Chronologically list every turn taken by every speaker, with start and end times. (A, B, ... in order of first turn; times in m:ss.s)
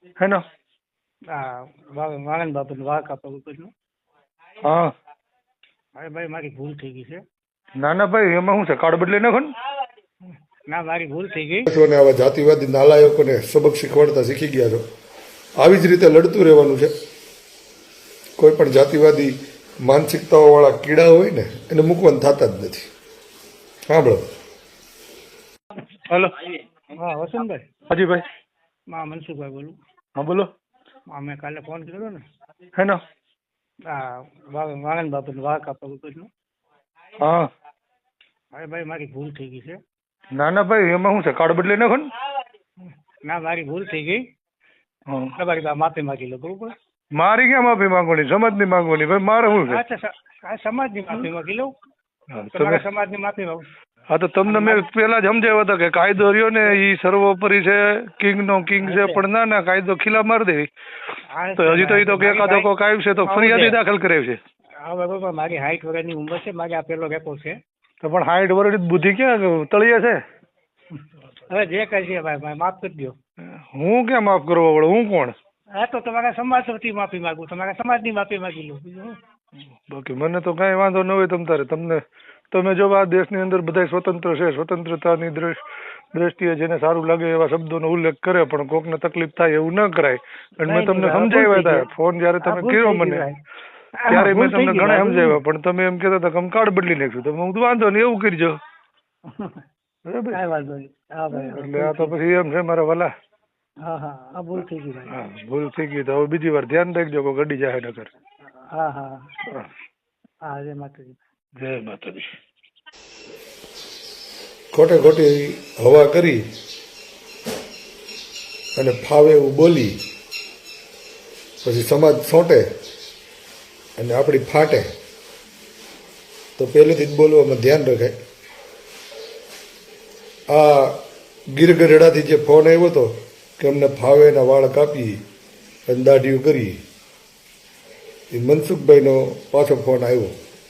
0:01.3-0:03.7 A
0:04.6-0:04.9 B
0:06.0-0:07.2 A
0:07.8-0:09.5 B
0:10.7-0:11.7 A
0:11.7-0:14.8 C
0:15.6-0:16.9 C
0:18.4-0:22.9 C
0:23.9-0:24.3 C
0:26.1-0:26.3 B
0:27.0-0:27.7 A
0:27.9-0:28.2 B
0:28.9-0:29.7 A
0:30.2-0:30.5 B
0:31.1-0:32.2 A
0:33.9-0:36.3 A
0:37.2-0:37.5 B
0:38.5-0:39.8 A
0:40.4-0:42.1 B
0:43.2-0:44.2 A
0:45.4-0:46.7 A
0:47.2-0:49.8 B
0:49.6-0:51.7 A
0:52.3-0:52.8 B
0:52.5-0:53.6 A
0:54.1-1:00.7 B
0:54.4-0:54.9 A
0:58.8-0:59.2 A
1:01.3-1:02.7 A
1:01.6-1:04.4 B
1:03.2-1:03.8 A
1:04.8-1:07.6 A
1:08.0-1:10.2 B
1:11.5-1:13.1 A
1:13.7-1:15.3 B
1:15.8-1:19.2 A
1:19.9-1:25.6 B
1:26.1-1:33.2 B
1:30.6-1:31.8 A
1:32.4-1:33.4 A
1:34.0-1:35.4 A
1:34.1-1:38.6 B
1:39.3-1:39.6 A
1:40.0-1:40.4 B
1:40.3-1:42.1 A
1:41.3-1:43.1 B
1:43.8-1:45.1 A
1:45.1-1:48.1 B
1:48.7-1:49.3 A
1:50.4-1:51.2 A
1:51.6-1:52.3 B
1:54.7-1:56.4 C
1:58.8-2:00.0 C
2:01.6-2:02.6 C
2:04.0-2:04.9 C
2:06.6-2:08.2 C
2:10.5-2:11.0 C
2:11.5-2:15.2 C
2:15.9-2:16.8 C
2:18.3-2:20.4 C